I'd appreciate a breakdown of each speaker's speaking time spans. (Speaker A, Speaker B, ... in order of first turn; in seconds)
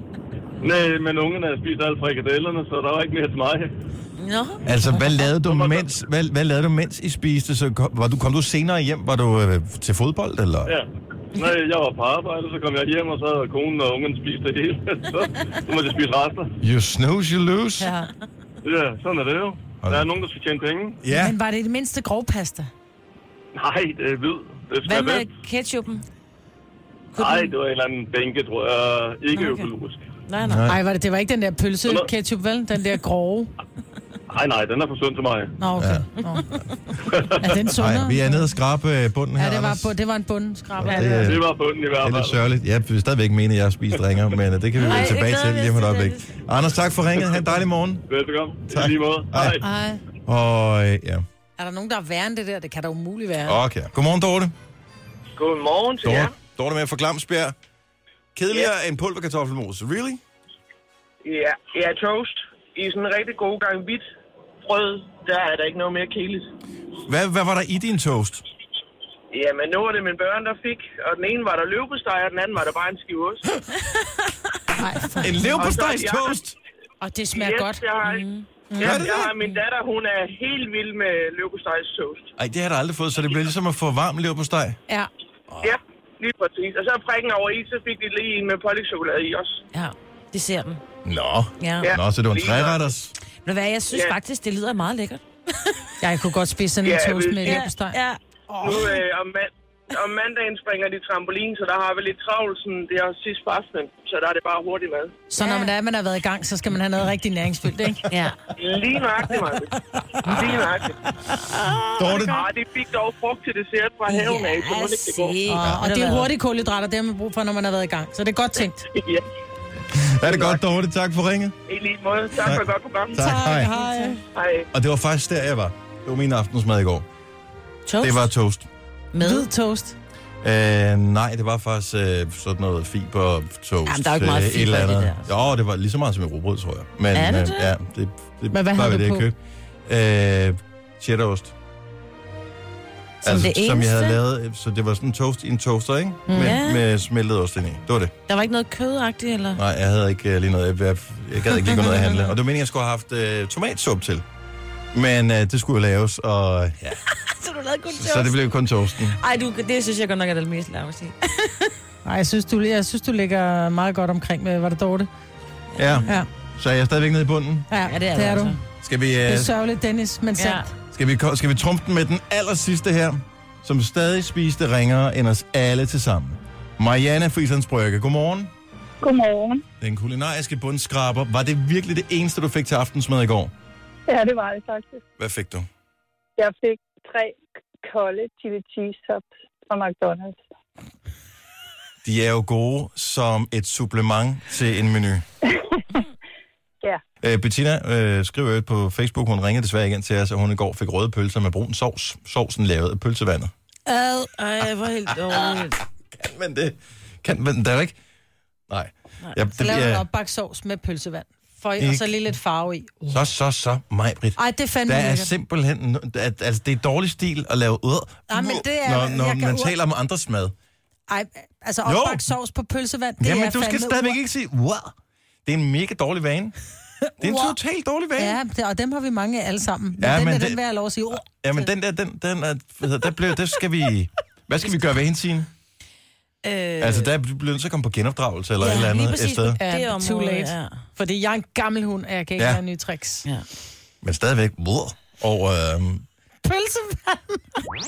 Speaker A: 0.6-3.7, 5.4-5.9, 10.7-16.5, 18.6-21.0, 23.6-25.3, 27.1-30.1, 34.3-35.5, 37.1-37.4, 41.2-42.4, 48.1-49.6
Speaker B: 4.2-5.3, 24.9-26.0, 27.1-27.5, 29.3-29.7, 30.3-30.7, 40.9-41.2, 44.8-46.3, 78.0-78.5, 89.7-90.8, 91.6-91.9, 93.5-95.2, 97.4-98.2, 105.4-105.7, 108.1-108.4, 110.3-110.6, 111.3-112.4, 114.1-116.3, 127.9-128.3, 129.1-129.5, 133.9-135.3, 137.1-137.7, 143.2-144.2, 146.4-146.8, 148.3-149.6, 151.8-152.1, 157.3-158.6, 159.2-161.7, 165.8-166.2, 167.8-168.6, 170.4-170.7, 203.9-205.8, 236.4-237.1, 238.6-240.7
Speaker C: 4.7-10.7, 16.6-17.9, 19.8-20.1, 21.0-21.4, 30.4-30.8, 35.8-36.0, 37.7-40.0, 40.8-41.5, 42.0-48.0, 48.7-49.6, 50.3-51.2, 53.5-54.5, 56.0-57.5, 58.4-60.2, 67.1-68.4, 75.2-76.6, 78.8-79.3, 82.4-84.8, 85.5-85.8, 91.0-93.2, 112.0-112.4, 115.6-115.8, 119.9-121.5, 122.4-123.7, 124.7-127.0, 128.0-128.7, 130.4-139.4, 139.9-141.5, 143.2-148.1, 149.6-154.2, 154.9-157.0, 157.9-159.2, 165.8-167.7, 168.8-169.6, 170.9-178.5, 179.8-183.5, 185.2-185.7, 192.0-195.2, 197.2-203.5, 206.2-208.0, 208.7-210.1, 211.8-212.3, 213.1-220.5, 221.8-222.3, 223.2-224.9, 225.4-226.5, 227.2-228.4, 230.0-235.5, 236.8-239.6, 244.0-246.1
Speaker D: 17.8-18.1, 21.1-22.7, 30.6-33.5, 35.6-36.5, 37.4-38.5, 39.4-41.4, 49.6-50.0, 51.6-53.6, 74.7-75.7, 77.0-77.8, 78.7-79.0, 96.0-99.0, 105.3-108.1, 115.5-118.8, 123.2-124.2, 129.2-130.0, 138.5-139.3, 146.3-146.6, 162.1-165.1, 167.7-168.6, 169.2-170.7, 209.6-213.2, 214.4-215.3, 218.3-219.7, 221.1-224.2, 228.2-231.7, 239.6-243.3, 246.4-247.6
Speaker E: 55.4-56.3, 61.2-64.0, 64.7-66.5, 69.3-73.4, 75.6-76.3, 77.3-78.2, 78.8-82.3, 85.6-89.6, 91.8-92.8, 93.9-94.2, 96.8-97.7, 98.6-105.1, 108.6-111.0, 112.0-115.4, 118.8-119.2, 120.2-120.6, 121.7-123.2, 124.3-124.7
Speaker F: 179.0-179.6, 184.1-185.0, 186.4-190.4